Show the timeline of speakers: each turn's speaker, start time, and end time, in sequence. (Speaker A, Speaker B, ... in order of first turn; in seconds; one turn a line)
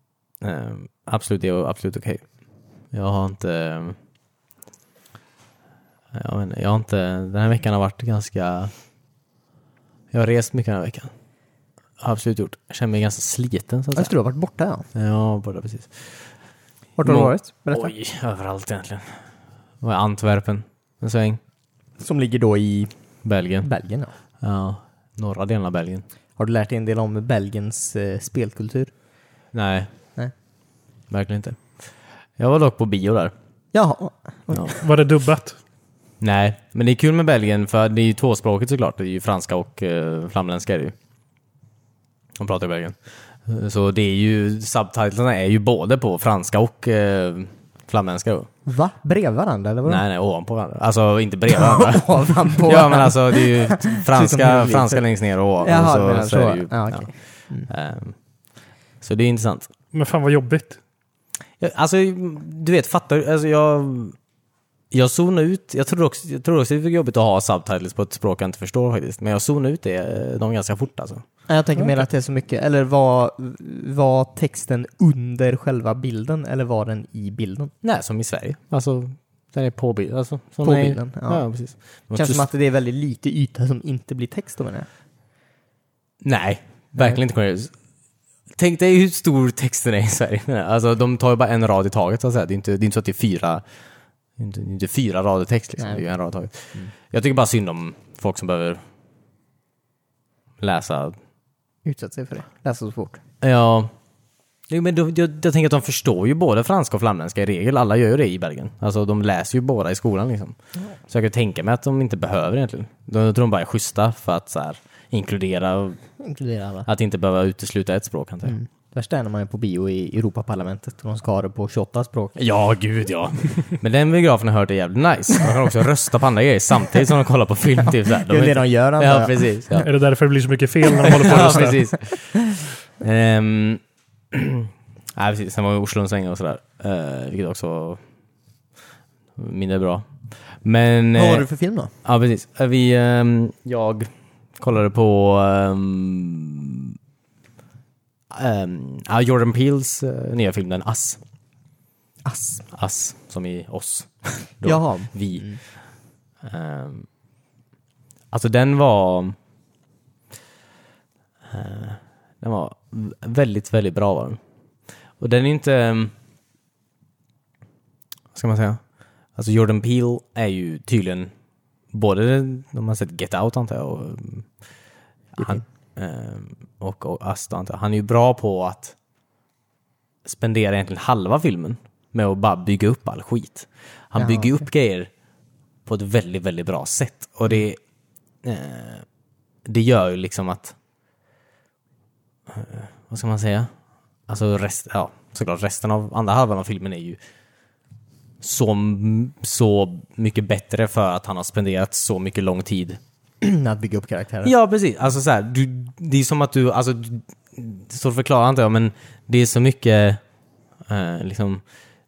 Speaker A: 0.4-2.2
Speaker A: 2.9-4.0
Speaker A: 6.1-8.7
Speaker A: 10.1-11.1
Speaker A: 12.0-14.1
Speaker B: 13.9-14.9
Speaker A: 14.9-16.1
Speaker B: 17.0-17.9
Speaker A: 17.0-19.2
Speaker A: 19.8-21.4
Speaker B: 22.0-22.9
Speaker A: 23.2-23.7
Speaker B: 23.6-24.1
Speaker A: 24.4-26.1
Speaker B: 26.4-28.9
Speaker A: 29.5-29.9
Speaker A: 31.1-31.7
Speaker A: 32.4-33.3
Speaker B: 33.7-34.8
Speaker C: 34.8-35.6
Speaker A: 36.2-40.9
Speaker A: 42.4-48.5
Speaker B: 48.7-50.0
Speaker A: 49.9-58.2
Speaker B: 51.5-55.0
Speaker B: 55.6-57.7
Speaker A: 59.0-59.7
Speaker C: 59.9-60.8
Speaker A: 61.6-64.2
Speaker A: 64.9-71.2
Speaker B: 71.5-77.7
Speaker A: 77.8-82.4
Speaker B: 80.6-81.5
Speaker B: 82.1-84.9
Speaker A: 86.2-87.7
Speaker A: 88.6-93.6
Speaker A: 94.4-98.8
Speaker B: 95.8-96.0
Speaker A: 100.6-101.2
Speaker B: 101.8-103.2
Speaker A: 103.4-103.9
Speaker A: 104.7-110.5
Speaker A: 111.1-116.0
Speaker B: 116.2-116.9
Speaker A: 116.8-118.6
Speaker B: 118.5-122.4
Speaker A: 122.4-129.9
Speaker B: 128.3-129.9
Speaker C: 129.8-131.8
Speaker A: 131.1-132.4
Speaker B: 131.1-131.7
Speaker A: 133.0-138.0
Speaker A: 139.4-141.5
Speaker B: 141.2-141.9
Speaker A: 142.0-147.0
Speaker A: 148.3-151.2
Speaker B: 152.2-152.7
Speaker A: 152.7-155.6
Speaker B: 154.6-155.6
Speaker A: 156.4-157.1
Speaker A: 158.3-159.4
Speaker A: 161.5-164.4
Speaker A: 165.2-166.1
Speaker A: 168.3-168.8
Speaker A: 169.3-171.3
Speaker A: 171.9-174.5
Speaker A: 175.4-179.0
Speaker A: 180.2-185.1
Speaker B: 184.2-184.6
Speaker A: 185.9-187.8
Speaker A: 188.4-189.1
Speaker A: 189.6-190.8
Speaker A: 192.5-193.7
Speaker A: 194.3-197.2
Speaker A: 198.4-203.0
Speaker B: 203.4-204.5
Speaker A: 204.4-210.2
Speaker A: 210.9-211.6